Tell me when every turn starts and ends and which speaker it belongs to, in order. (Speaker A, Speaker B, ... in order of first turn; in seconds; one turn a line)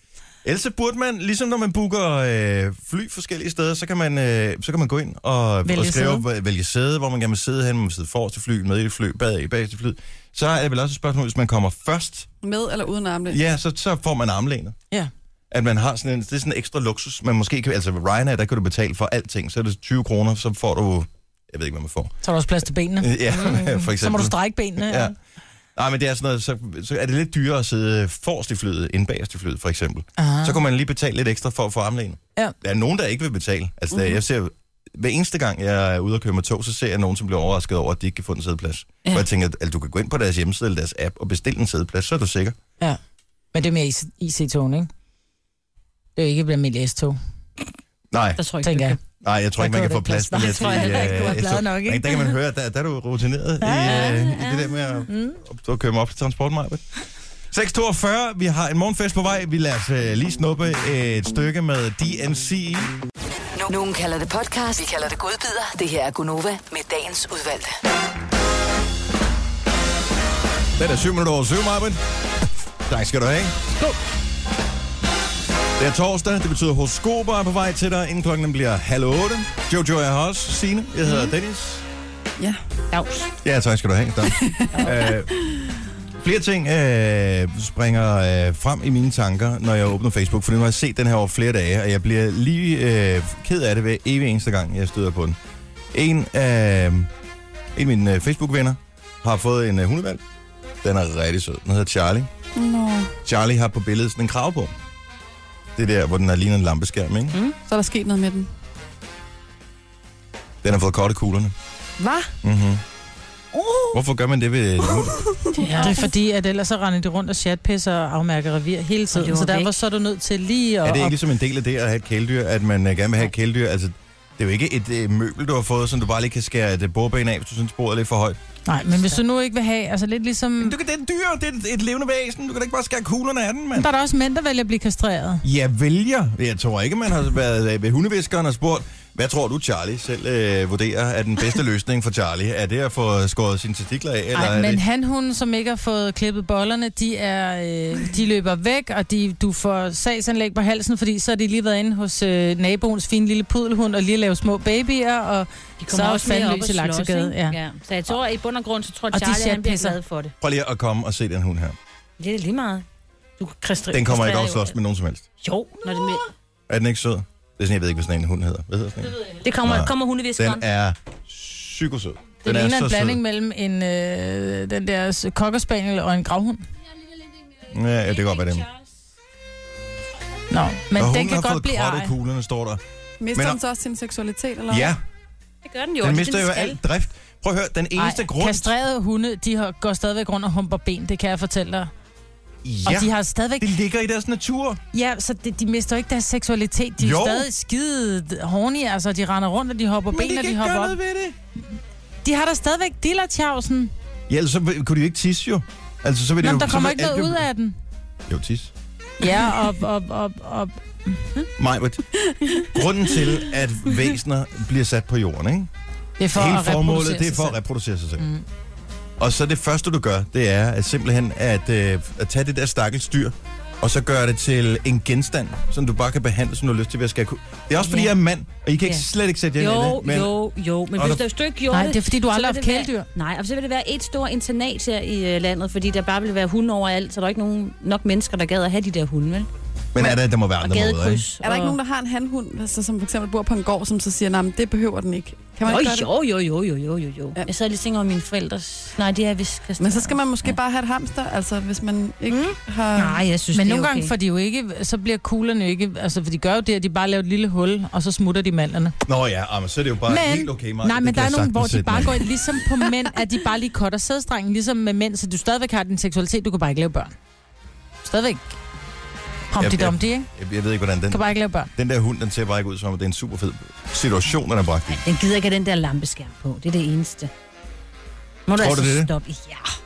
Speaker A: 0.4-12.3
Speaker B: 5.7-6.2
Speaker C: 12.4-13.4
Speaker A: 13.3-14.8
Speaker A: 15.5-22.1
Speaker B: 22.2-25.1
Speaker A: 23.0-25.1
Speaker A: 25.8-42.6
Speaker B: 30.2-30.6
Speaker B: 43.5-44.9
Speaker B: 46.2-47.2
Speaker A: 48.1-48.4
Speaker D: 48.4-49.0
Speaker B: 48.6-49.0
Speaker A: 49.2-56.8
Speaker B: 49.6-52.3
Speaker D: 50.4-51.4
Speaker B: 53.6-54.1
Speaker D: 53.8-54.9
Speaker B: 55.1-55.4
Speaker A: 57.5-63.0
Speaker E: 63.5-67.7
Speaker A: 70.8-72.0
Speaker A: 72.9-73.5
Speaker A: 75.8-81.8
Speaker D: 82.9-83.3
Speaker A: 83.4-85.3
Speaker C: 84.4-85.1
Speaker A: 86.2-95.4
Speaker A: 95.9-97.1
Speaker A: 97.8-100.2
Speaker A: 100.8-102.3
Speaker C: 102.5-103.1
Speaker A: 103.2-104.7
Speaker A: 105.8-107.4
Speaker C: 107.7-108.5
Speaker A: 110.6-111.5
Speaker C: 112.0-112.3
Speaker A: 112.4-112.8
Speaker D: 113.5-113.9
Speaker A: 113.9-115.3
Speaker C: 115.2-115.9
Speaker D: 115.6-116.0
Speaker B: 115.7-121.2
Speaker D: 119.1-119.7
Speaker A: 120.8-128.4
Speaker B: 128.7-130.8
Speaker A: 130.6-133.9
Speaker B: 133.8-135.4
Speaker A: 135.4-144.8
Speaker B: 144.3-157.6
Speaker D: 155.8-160.3
Speaker B: 159.1-160.0
Speaker A: 160.4-161.8
Speaker D: 162.2-162.8
Speaker D: 163.4-164.8
Speaker A: 163.9-165.2
Speaker D: 165.4-166.3
Speaker A: 166.7-173.2
Speaker D: 169.4-170.6
Speaker B: 172.4-176.6
Speaker A: 177.7-178.7
Speaker B: 180.5-182.1
Speaker A: 180.9-182.8
Speaker C: 183.2-184.9
Speaker A: 183.3-183.6
Speaker A: 184.7-185.0
Speaker D: 185.6-186.8
Speaker A: 186.0-188.7
Speaker B: 188.0-191.9
Speaker A: 192.6-194.8
Speaker B: 192.8-193.7
Speaker B: 194.9-201.0
Speaker A: 197.0-197.5
Speaker A: 200.1-201.4
Speaker B: 202.2-203.9
Speaker A: 204.3-207.4
Speaker B: 206.4-207.8
Speaker A: 208.3-208.7
Speaker B: 209.2-211.3
Speaker A: 211.6-212.1
Speaker C: 212.3-212.6
Speaker A: 212.6-215.7
Speaker B: 216.2-217.6
Speaker A: 216.3-218.2
Speaker B: 218.2-218.4
Speaker A: 219.2-230.3
Speaker D: 227.8-228.1
Speaker D: 229.6-239.5
Speaker A: 230.9-231.2
Speaker B: 231.7-233.1
Speaker A: 239.9-241.2
Speaker D: 240.6-241.8
Speaker C: 241.4-246.1
Speaker D: 245.7-250.6
Speaker C: 249.8-253.2
Speaker D: 252.3-254.1
Speaker B: 253.5-259.0
Speaker A: 259.1-262.3
Speaker B: 260.1-267.1
Speaker B: 268.0-268.5
Speaker B: 269.5-270.3
Speaker A: 269.6-275.0
Speaker B: 271.1-271.7
Speaker D: 275.0-277.3
Speaker D: 278.5-279.7
Speaker A: 278.5-279.1